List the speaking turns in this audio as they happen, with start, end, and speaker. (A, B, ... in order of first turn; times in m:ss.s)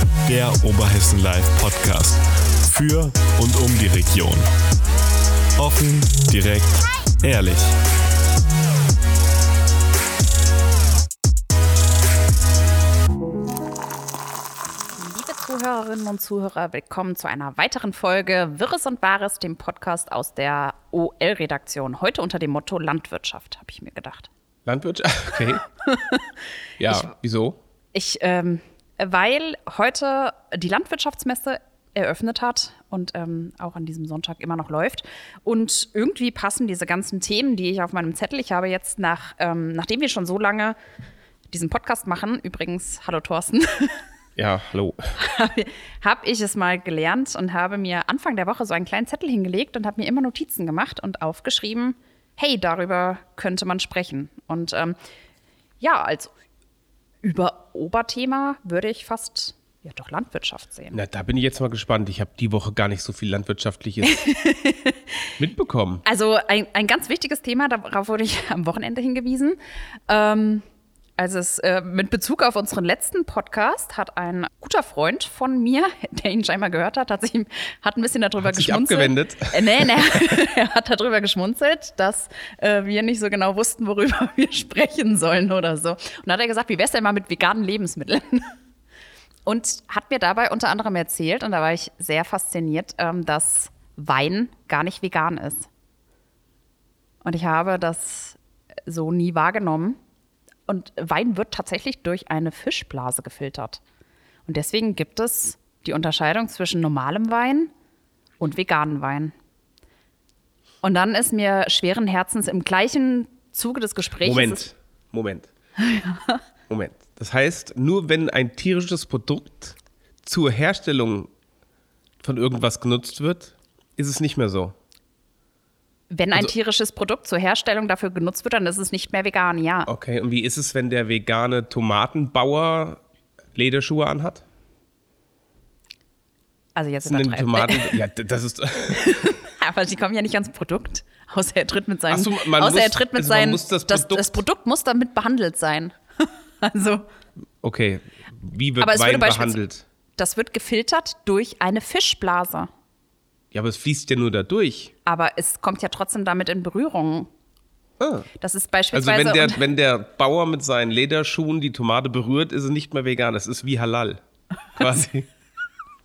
0:00.2-0:04.5 A
0:05.6-0:07.8 A
0:15.0-0:24.3 B
0:24.7-0:25.6 C
0:25.8-0:26.3 B
0:26.8-0:27.6 C
0:27.9-0:40.8 B
0:41.5-0:44.0 B
0:44.4-0:45.1 C
0:45.2-0:55.0 B
0:55.8-0:56.3 B
0:57.2-1:01.0 B
1:00.9-1:04.2 C
1:04.0-1:05.0 B
1:05.4-1:06.0 C
1:06.0-1:09.6 B
1:10.1-1:10.6 B
1:11.2-1:28.5 B
1:18.4-1:20.0 C
1:29.4-1:35.7 B
1:37.2-1:40.0 B
1:40.7-1:43.8 B
1:44.4-1:47.7 B
1:48.4-1:49.3 B
1:50.8-1:54.7 B
1:54.2-1:55.5 C
1:55.8-1:56.4 B
1:56.7-2:01.3 C
2:02.2-2:04.8 C
2:06.1-2:09.9 B
2:09.9-2:13.0 C
2:13.6-2:14.4 C
2:16.8-2:18.0 B
2:17.0-2:19.2 C
2:18.9-2:27.0 B
2:22.1-2:24.4 C
2:27.6-2:29.8 C
2:28.8-2:29.6 B
2:30.2-2:32.7 B
2:33.5-2:34.9 C
2:35.1-2:37.3 B
2:38.0-2:38.3 C
2:38.4-2:39.6 B
2:38.9-2:44.2 C
2:44.8-2:45.3 C